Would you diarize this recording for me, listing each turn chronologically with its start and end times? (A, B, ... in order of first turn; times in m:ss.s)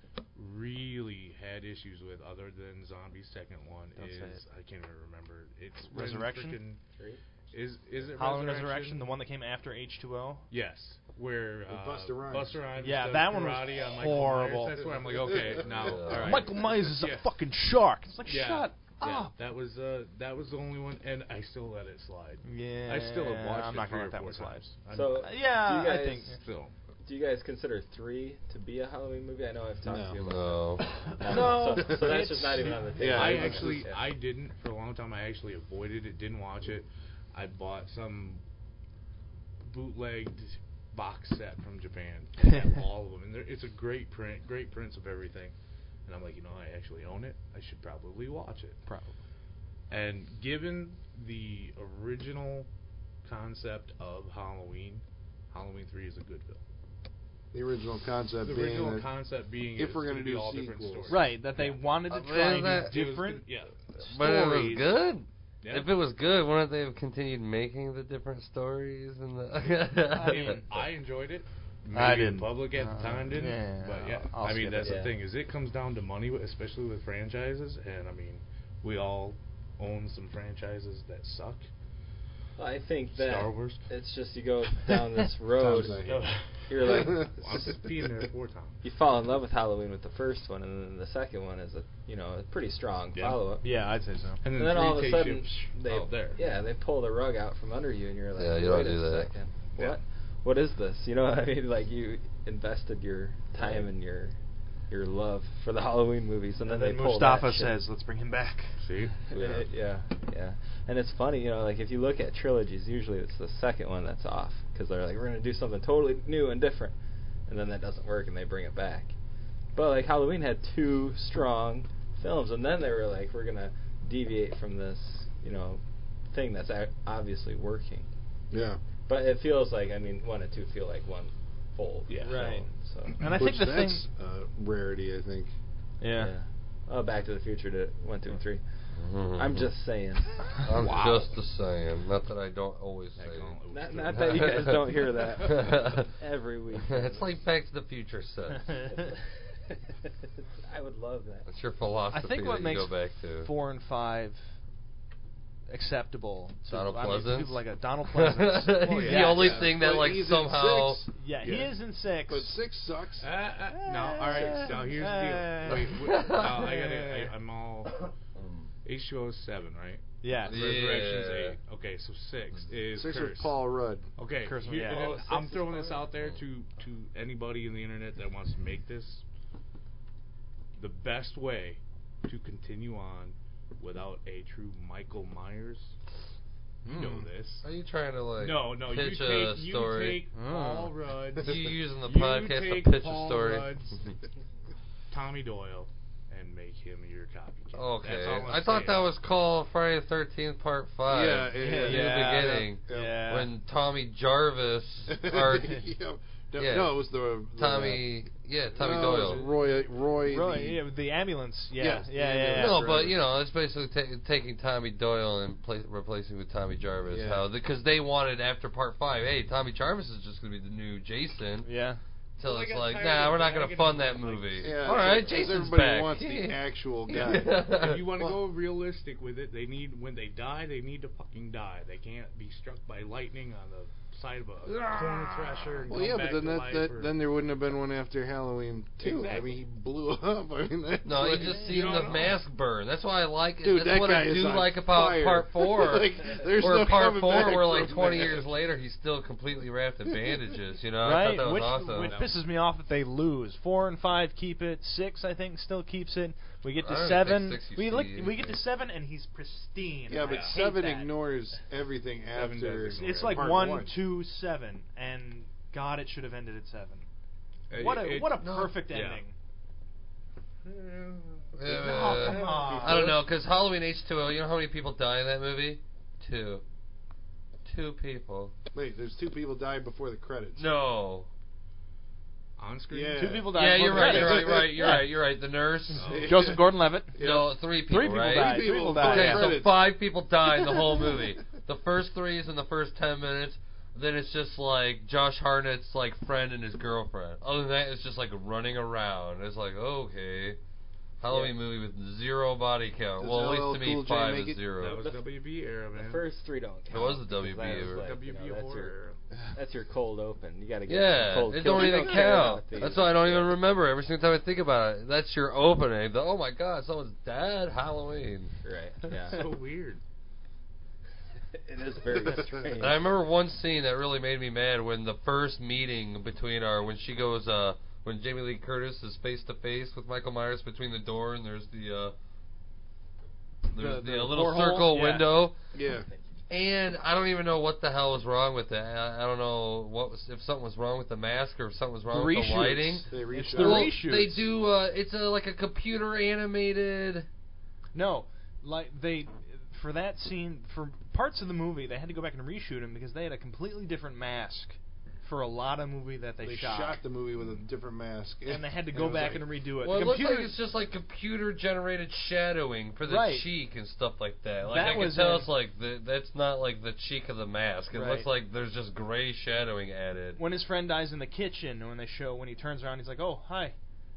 0:00.4-0:06.8 A
0:04.0-0:04.4 B
0:05.9-0:06.6 B
0:07.0-0:07.2 C
0:07.5-0:09.1 A
0:08.2-0:10.5 B
0:10.5-0:17.3 A
0:11.7-0:12.6 D
0:12.8-0:14.8 B
0:15.3-0:15.9 D
0:15.7-0:16.4 E
0:16.1-0:19.3 B
0:18.2-0:25.3 A
0:22.4-0:24.7 B
0:24.9-0:26.4 C
0:25.2-0:26.4 B
0:26.4-0:26.7 A
0:27.0-0:34.0 C
0:29.8-0:30.2 D
0:30.2-0:30.9 E
0:31.2-0:32.9 B
0:33.0-0:33.8 D
0:33.0-0:38.4 A
0:39.6-0:45.6 A
0:46.1-0:48.8 A
0:48.9-0:49.2 B
0:49.9-0:52.7 A
0:53.2-0:56.6 A
0:57.5-0:59.1 D
0:58.4-1:01.8 A
0:59.8-1:01.2 D
1:01.1-1:04.9 B
1:02.1-1:03.0 E
1:02.9-1:03.8 A
1:04.0-1:10.6 E
1:05.6-1:05.9 A
1:10.1-1:10.8 B
1:10.3-1:21.7 A
1:11.9-1:15.0 B
1:14.8-1:15.1 C
1:22.6-1:26.0 C
1:23.1-1:23.8 A
1:25.6-1:27.9 D
1:25.6-1:28.8 A
1:26.7-1:27.4 C
1:28.8-1:33.6 C
1:33.1-1:33.6 A
1:33.6-1:34.4 B
1:34.4-1:36.4 A
1:34.5-1:44.4 C
1:38.4-1:39.3 E
1:44.9-1:47.8 C
1:46.6-1:48.8 B
1:48.8-1:49.3 A
1:49.3-1:57.0 C
1:57.5-1:59.1 C
1:59.7-2:08.1 C
2:08.5-2:08.8 D
2:09.1-2:13.2 C
2:12.1-2:12.5 A
2:12.2-2:12.6 B
2:13.2-2:14.0 B
2:13.4-2:15.5 D
2:16.0-2:16.3 B
2:16.2-2:18.6 C
2:19.0-2:19.7 E
2:19.4-2:20.6 C
2:20.6-2:26.1 E
2:20.8-2:21.4 A
2:23.2-2:25.6 A
2:23.7-2:27.3 C
2:26.9-2:28.9 E
2:28.9-2:31.5 C
2:31.5-2:33.5 E
2:32.1-2:34.5 B
2:35.7-2:39.6 B
2:36.7-2:37.6 E
2:38.1-2:41.0 E
2:39.0-2:39.7 A
2:39.4-2:41.7 D
2:41.1-2:42.5 B
2:42.3-2:43.3 D
2:43.2-2:48.1 A
2:43.7-2:46.0 B
2:46.1-2:46.8 E
2:46.6-2:47.3 B
2:48.4-2:48.7 E
2:48.8-2:53.6 A
2:50.2-2:50.6 B
2:50.5-2:51.6 E
2:53.0-2:54.1 D
2:54.2-2:59.2 A
2:54.4-2:55.2 B
2:54.8-2:56.1 C
3:00.8-3:05.9 A
3:06.8-3:07.3 B
3:06.9-3:07.6 A
3:07.6-3:10.3 E
3:08.4-3:14.1 A
3:10.3-3:11.0 B
3:11.4-3:13.8 E
3:15.1-3:19.1 A
3:17.8-3:25.8 E
3:21.1-3:23.2 D
3:21.6-3:23.5 B
3:25.1-3:28.1 D
3:26.6-3:29.4 E
3:28.8-3:30.8 D
3:29.1-3:29.5 B
3:30.2-3:32.9 B
3:31.8-3:33.2 D
3:32.6-3:41.7 E
3:37.1-3:37.5 D
3:41.6-3:42.0 B
3:42.4-3:48.2 E
3:42.4-3:45.4 A
3:44.6-3:47.7 D
3:47.7-3:57.2 A
3:55.9-4:01.8 D
3:59.0-3:59.6 A
4:01.0-4:12.1 E
4:01.4-4:02.0 B
4:01.7-4:02.4 A
4:03.6-4:08.4 D
4:11.0-4:21.1 B
4:12.0-4:12.4 A
4:16.8-4:18.6 E
4:20.1-4:24.0 D
4:20.2-4:20.6 A
4:22.3-4:23.4 A
4:22.9-4:27.1 B
4:27.7-4:29.2 A
4:27.8-4:29.4 B
4:28.4-4:28.8 E
4:30.6-4:31.6 A
4:31.6-4:36.6 E
4:31.7-4:33.2 B
4:32.3-4:33.0 A
4:32.7-4:33.1 D
4:37.6-4:38.5 E
4:38.7-4:40.7 D
4:40.6-4:41.3 E
4:42.6-4:44.0 A
4:42.9-4:45.0 D
4:43.1-4:45.1 B
4:43.5-4:46.2 E
4:45.9-4:46.3 A
4:46.0-4:49.9 D
4:46.2-4:47.2 B
4:47.2-5:00.6 E
4:47.9-4:49.6 B
4:50.6-4:51.2 D
5:01.2-5:05.0 E
5:01.3-5:01.6 C
5:03.2-5:04.6 D
5:04.8-5:06.2 A
5:05.9-5:13.6 C
5:06.9-5:08.1 E
5:07.8-5:09.2 A
5:10.9-5:18.6 E
5:18.6-5:19.4 C
5:19.3-5:20.0 A
5:21.5-5:23.1 C
5:22.8-5:32.2 E
5:33.7-5:35.6 E
5:33.7-5:35.4 B
5:35.7-5:36.1 D
5:36.1-5:36.3 C
5:36.5-5:47.3 E
5:42.1-5:44.5 B
5:43.1-5:44.0 D
5:47.9-5:57.0 B
5:56.4-5:59.5 D
5:58.5-6:00.6 B
5:59.8-6:10.4 E
6:03.1-6:03.5 B
6:04.6-6:05.5 B
6:07.9-6:08.3 B
6:10.4-6:13.8 B